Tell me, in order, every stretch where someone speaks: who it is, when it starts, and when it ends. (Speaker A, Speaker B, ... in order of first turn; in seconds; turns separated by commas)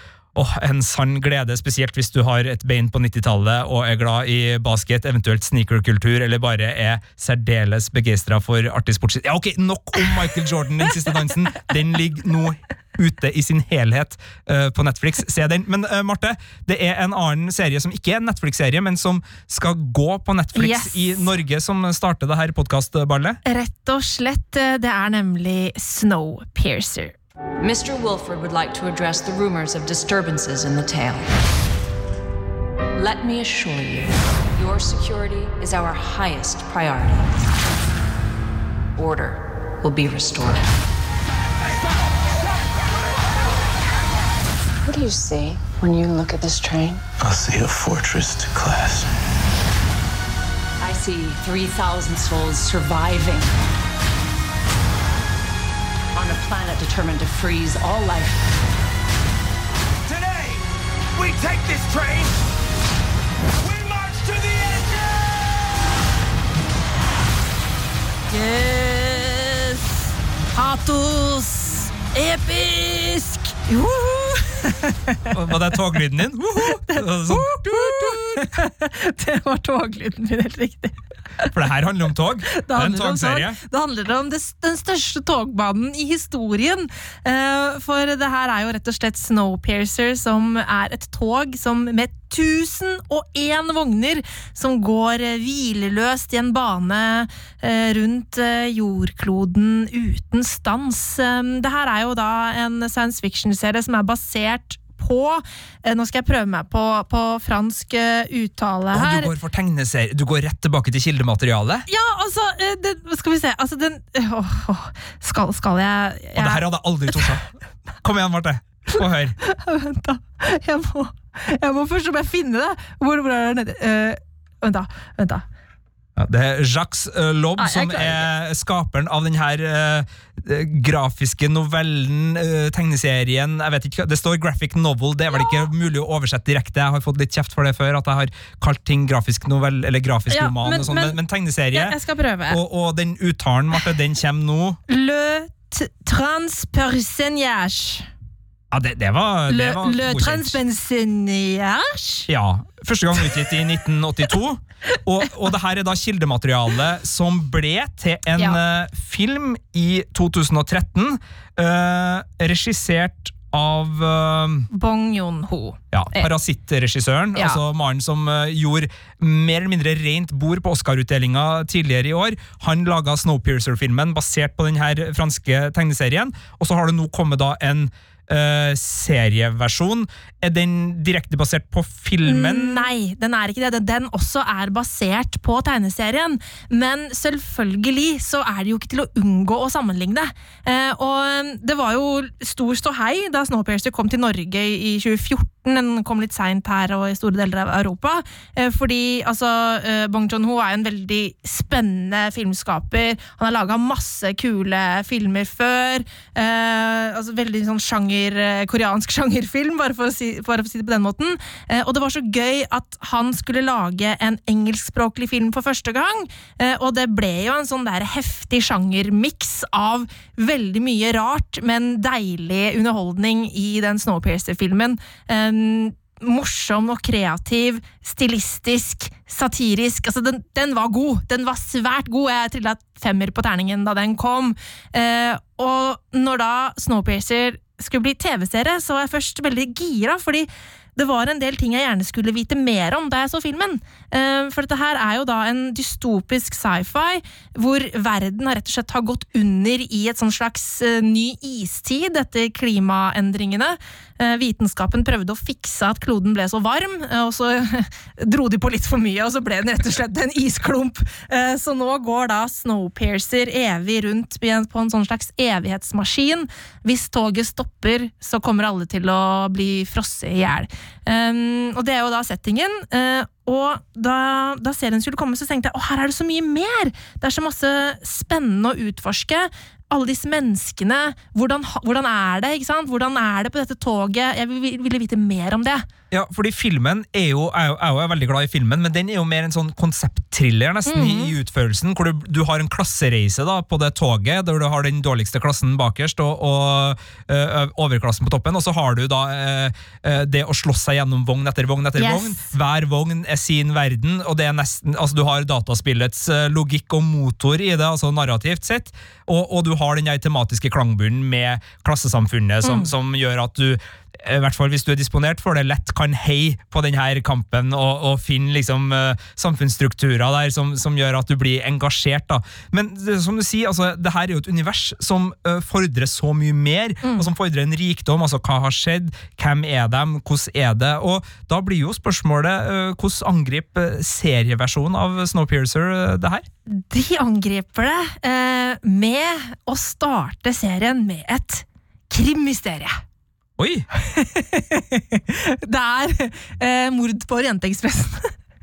Speaker A: 0.3-23.4, Speaker B: 20.5-21.3, Speaker B: 23.4-27.1, Speaker C: 27.6-31.3, Speaker C: 33.0-37.3, Speaker C: 39.0-40.7, Speaker D: 44.8-47.0, Speaker E: 47.2-49.1, Speaker C: 50.8-53.5, Speaker C: 56.1-58.5, Speaker F: 60.0-60.6, Speaker F: 61.1-62.4, Speaker F: 63.6-65.3, Speaker B: 68.3-69.8, Speaker B: 70.5-75.3, Speaker A: 75.3-78.6, Speaker B: 76.6-81.5, Speaker A: 81.5-83.6, Speaker B: 82.5-109.3, Speaker A: 108.9-111.9, Speaker B: 111.9-117.3, Speaker A: 116.3-117.5, Speaker A: 118.0-119.3, Speaker B: 119.4-125.4, Speaker A: 126.2-142.0, Speaker B: 127.6-128.2, Speaker B: 135.3-135.7, Speaker B: 140.3-141.2, Speaker B: 141.7-142.6, Speaker A: 142.5-144.8, Speaker B: 144.9-148.1, Speaker A: 148.7-150.6, Speaker B: 149.5-152.3, Speaker A: 152.3-164.7, Speaker B: 164.7-166.3, Speaker A: 165.9-182.9, Speaker B: 167.3-167.6, Speaker B: 182.2-285.9, Speaker A: 286.1-336.4, Speaker B: 290.9-291.3, Speaker B: 301.9-302.5, Speaker B: 312.6-312.9, Speaker B: 327.0-327.3, Speaker B: 336.7-343.0, Speaker A: 343.6-343.9, Speaker B: 344.0-348.3